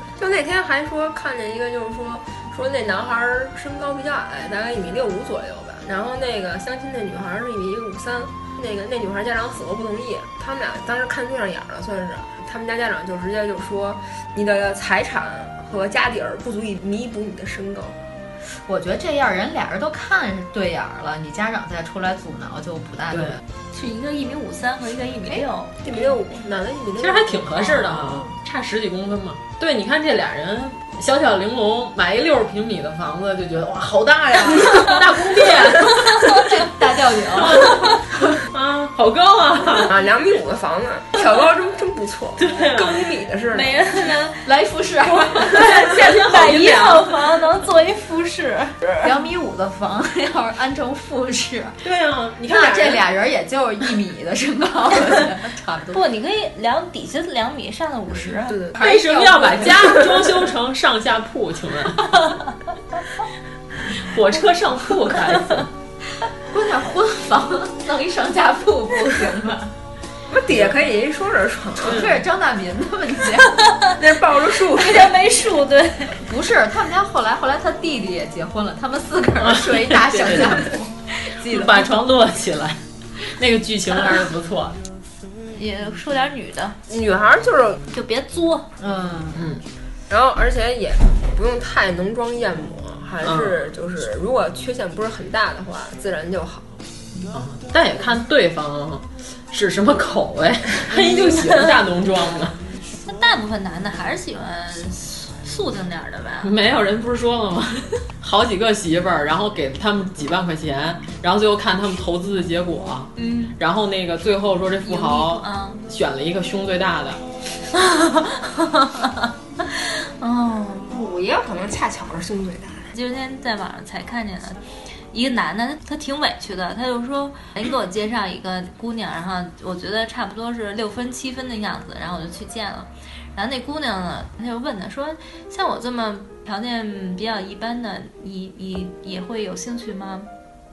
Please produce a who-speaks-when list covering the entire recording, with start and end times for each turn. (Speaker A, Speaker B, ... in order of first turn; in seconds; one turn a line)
Speaker A: 0.2-18.0
Speaker B: 18.7-23.4
Speaker C: 23.1-23.4
Speaker D: 23.7-25.7
Speaker A: 25.8-27.8
Speaker C: 27.0-36.3
Speaker B: 36.1-38.4
Speaker C: 37.4-37.9
Speaker C: 38.5-39.9
Speaker A: 39.9-43.8
Speaker C: 42.4-43.0
Speaker D: 43.5-44.4
Speaker B: 44.4-45.8
Speaker D: 45.0-48.9
Speaker C: 45.5-47.1
Speaker B: 49.0-51.8
Speaker C: 51.8-53.0
Speaker B: 52.5-56.0
Speaker D: 55.9-58.6
Speaker A: 58.5-60.3
Speaker C: 58.8-62.2
Speaker C: 64.0-65.7
Speaker B: 66.5-69.7
Speaker A: 70.3-72.0
Speaker B: 71.8-73.7
Speaker D: 73.7-74.0
Speaker A: 74.0-75.1
Speaker D: 74.7-76.2
Speaker B: 76.2-81.8
Speaker C: 79.4-80.7
Speaker C: 81.5-82.8
Speaker C: 83.4-84.8
Speaker D: 85.5-86.8
Speaker A: 86.9-87.8
Speaker D: 87.9-88.7
Speaker B: 88.8-89.4
Speaker C: 89.3-89.6
Speaker A: 90.1-96.8
Speaker C: 93.2-93.7
Speaker C: 97.3-102.6
Speaker D: 103.0-106.5
Speaker C: 106.4-117.2
Speaker D: 113.2-113.6
Speaker D: 114.9-115.8
Speaker D: 117.8-121.0
Speaker A: 120.9-122.9
Speaker D: 122.9-124.6
Speaker D: 125.1-140.3